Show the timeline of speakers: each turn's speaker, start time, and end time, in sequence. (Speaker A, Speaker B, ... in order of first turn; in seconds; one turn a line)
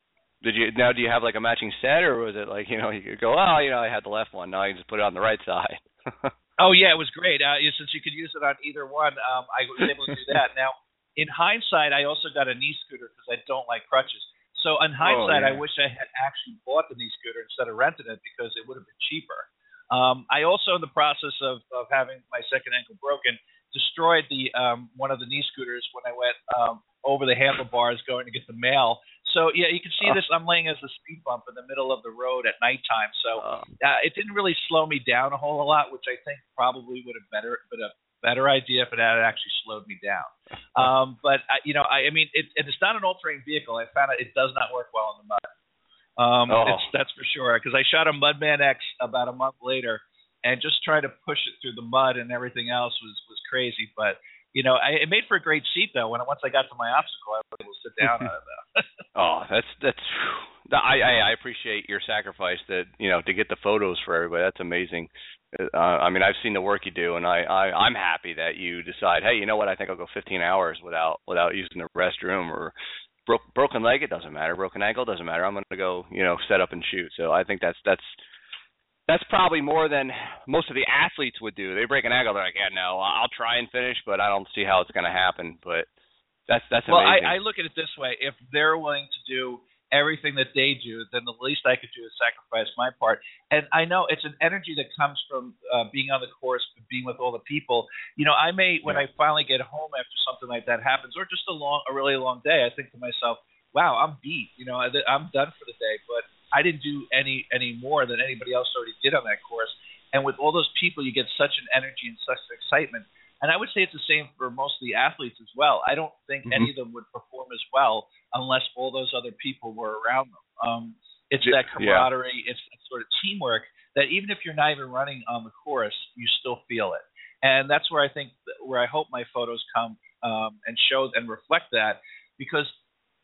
Speaker A: 0.4-6.3
Speaker B: 6.6-45.5
Speaker A: 15.0-15.6
Speaker A: 33.4-33.7
Speaker B: 46.2-58.9
Speaker A: 46.5-46.9
Speaker A: 59.1-72.7
Speaker A: 73.3-78.2
Speaker A: 79.1-85.9
Speaker A: 86.5-87.4
Speaker B: 86.9-132.7
Speaker A: 121.4-122.1